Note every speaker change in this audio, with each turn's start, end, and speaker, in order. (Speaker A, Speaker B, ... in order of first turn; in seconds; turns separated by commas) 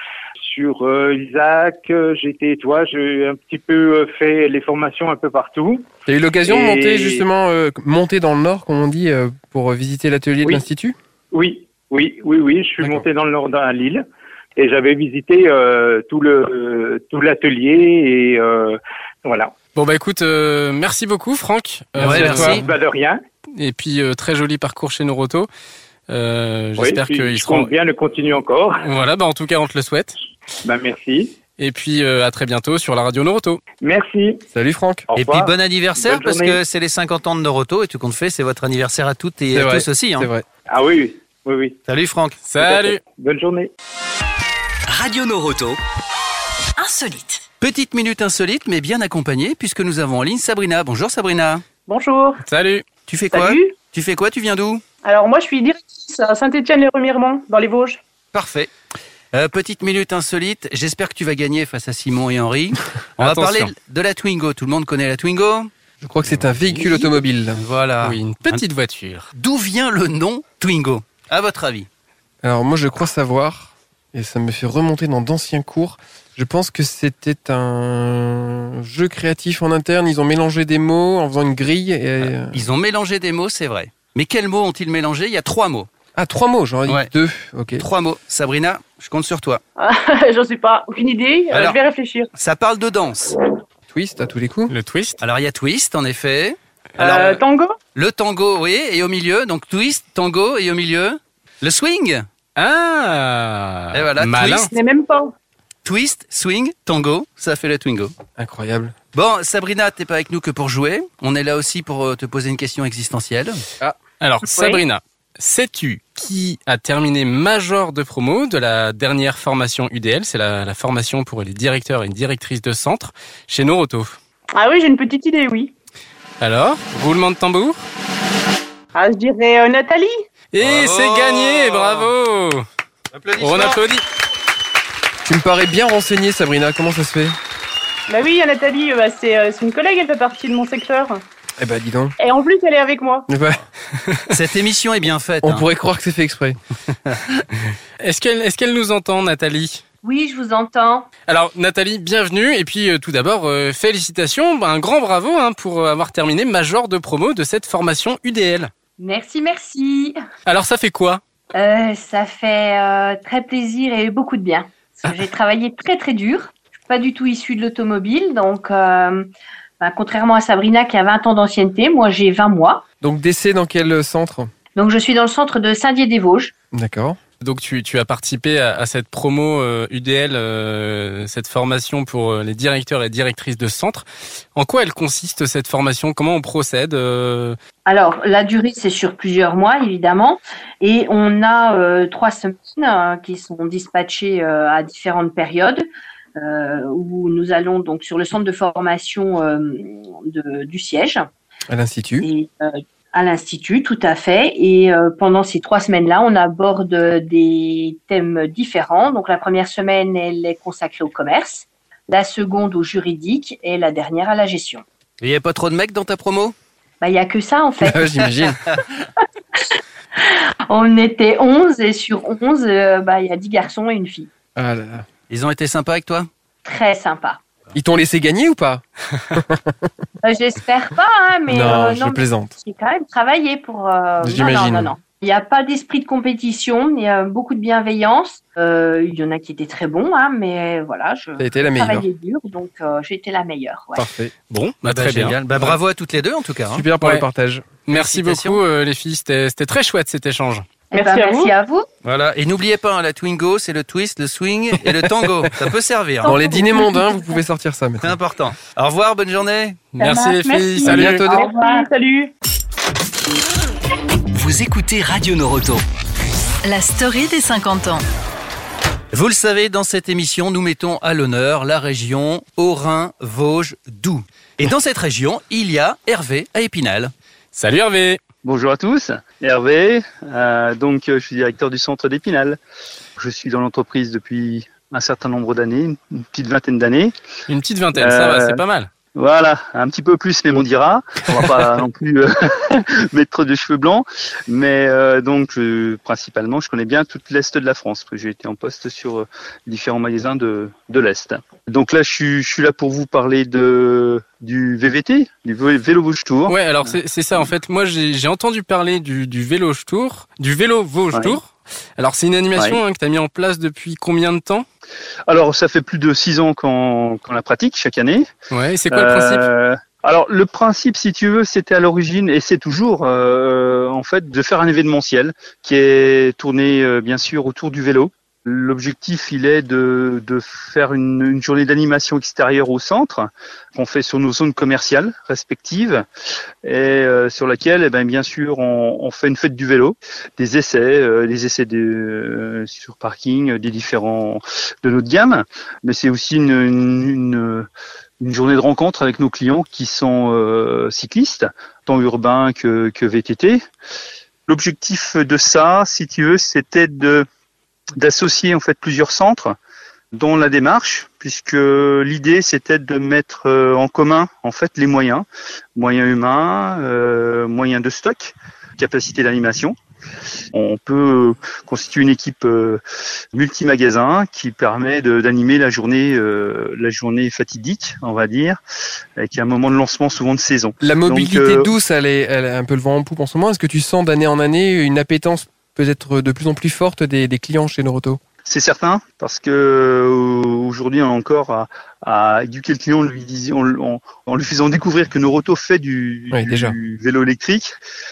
Speaker A: 0.4-5.9, Speaker B: 6.1-10.9, Speaker A: 6.4-7.2, Speaker A: 11.3-14.0, Speaker A: 14.6-19.6, Speaker C: 19.7-22.6, Speaker B: 22.0-22.6, Speaker D: 22.0-22.6, Speaker A: 22.1-23.2, Speaker C: 23.6-25.5, Speaker C: 26.1-27.7, Speaker A: 26.8-28.9, Speaker C: 28.8-30.1, Speaker A: 30.6-31.3, Speaker C: 31.6-33.6, Speaker A: 33.8-34.4, Speaker B: 34.5-35.1, Speaker A: 35.1-36.6, Speaker D: 35.1-40.3, Speaker B: 39.5-40.5, Speaker A: 40.7-41.8, Speaker D: 41.9-42.4, Speaker C: 42.4-43.0, Speaker A: 42.6-43.7, Speaker E: 44.9-45.8, Speaker F: 46.8-47.4, Speaker D: 47.6-51.6, Speaker G: 51.9-52.4, Speaker C: 52.4-52.9, Speaker D: 53.0-54.8, Speaker G: 53.3-53.7, Speaker G: 55.0-58.0, Speaker D: 58.3-58.7, Speaker D: 59.3-65.7, Speaker C: 63.2-63.7, Speaker B: 66.0-67.6, Speaker D: 67.5-68.6, Speaker C: 68.0-69.3, Speaker D: 69.3-71.9, Speaker B: 72.4-82.6, Speaker D: 82.2-85.9, Speaker B: 86.2-87.8, Speaker D: 87.8-89.6, Speaker G: 89.8-92.3, Speaker D: 91.5-91.8, Speaker D: 92.3-93.3, Speaker B: 93.9-94.7, Speaker C: 94.7-95.2, Speaker D: 95.2-97.4, Speaker G: 97.0-97.8, Speaker D: 97.9-102.2, Speaker C: 102.5-104.7, Speaker D: 103.9-104.7, Speaker G: 104.7-105.3, Speaker D: 105.8-108.1, Speaker B: 108.4-108.9, Speaker D: 109.1-113.6, Speaker C: 114.2-124.2, Speaker G: 114.5-114.8, Speaker G: 124.5-125.7, Speaker C: 126.4-127.8, Speaker G: 128.9-130.2, Speaker C: 130.5-132.7, Speaker D: 130.6-132.1, Speaker D: 133.1-133.8, Speaker C: 133.4-134.0, Speaker B: 135.2-137.4, Speaker G: 138.1-141.2, Speaker B: 141.6-142.1, Speaker G: 142.2-143.3, Speaker B: 143.3-143.6, Speaker D: 144.3-145.6, Speaker B: 145.4-146.6, Speaker C: 148.0-149.8, Speaker H: 150.0-151.1, Speaker C: 151.3-158.7, Speaker H: 159.0-160.2, Speaker C: 160.5-161.2, Speaker H: 161.5-169.3, Speaker H: 169.8-172.8, Speaker B: 173.0-174.5, Speaker H: 174.7-176.5, Speaker B: 176.7-177.2, Speaker C: 177.4-187.6, Speaker H: 187.8-195.8, Speaker H: 196.4-201.3, Speaker B: 201.7-202.3, Speaker H: 202.2-214.8, Speaker D: 215.2-216.5, Speaker H: 217.0-218.1, Speaker B: 217.8-218.6, Speaker H: 220.2-224.3, Speaker B: 224.6-225.1, Speaker D: 225.3-226.3, Speaker H: 226.6-227.4, Speaker B: 227.7-228.8, Speaker B: 229.3-229.7, Speaker H: 230.2-244.1, Speaker B: 231.5-232.5, Speaker B: 234.2-234.9, Speaker B: 241.4-242.1, Speaker B: 243.9-244.3, Speaker C: 244.5-245.7, Speaker D: 244.8-246.8, Speaker B: 246.7-247.7, Speaker C: 247.9-250.7, Speaker D: 247.9-248.6, Speaker H: 250.9-251.8, Speaker G: 250.9-251.5, Speaker D: 252.0-256.3, Speaker B: 256.2-258.2, Speaker H: 256.2-257.1, Speaker D: 258.0-259.9, Speaker C: 259.9-261.3, Speaker G: 260.0-262.3, Speaker B: 260.8-261.4, Speaker H: 261.2-261.9, Speaker E: 264.3-265.8, Speaker F: 266.6-268.0, Speaker D: 269.1-277.1, Speaker C: 277.5-278.2, Speaker I: 278.4-282.6, Speaker I: 283.2-287.1, Speaker C: 287.5-288.9, Speaker I: 287.9-288.6, Speaker I: 289.1-307.4, Speaker C: 306.5-314.6, Speaker I: 311.1-311.4, Speaker I: 315.3-318.3, Speaker C: 318.5-319.5, Speaker I: 318.9-336.1, Speaker I: 336.6-347.7, Speaker I: 348.2-353.6, Speaker I: 354.5-357.2, Speaker I: 358.0-359.6, Speaker I: 360.1-369.8, Speaker I: 370.5-372.8, Speaker I: 373.3-378.6, Speaker I: 379.2-381.7, Speaker B: 380.8-388.2, Speaker I: 388.4-397.7, Speaker B: 396.3-396.8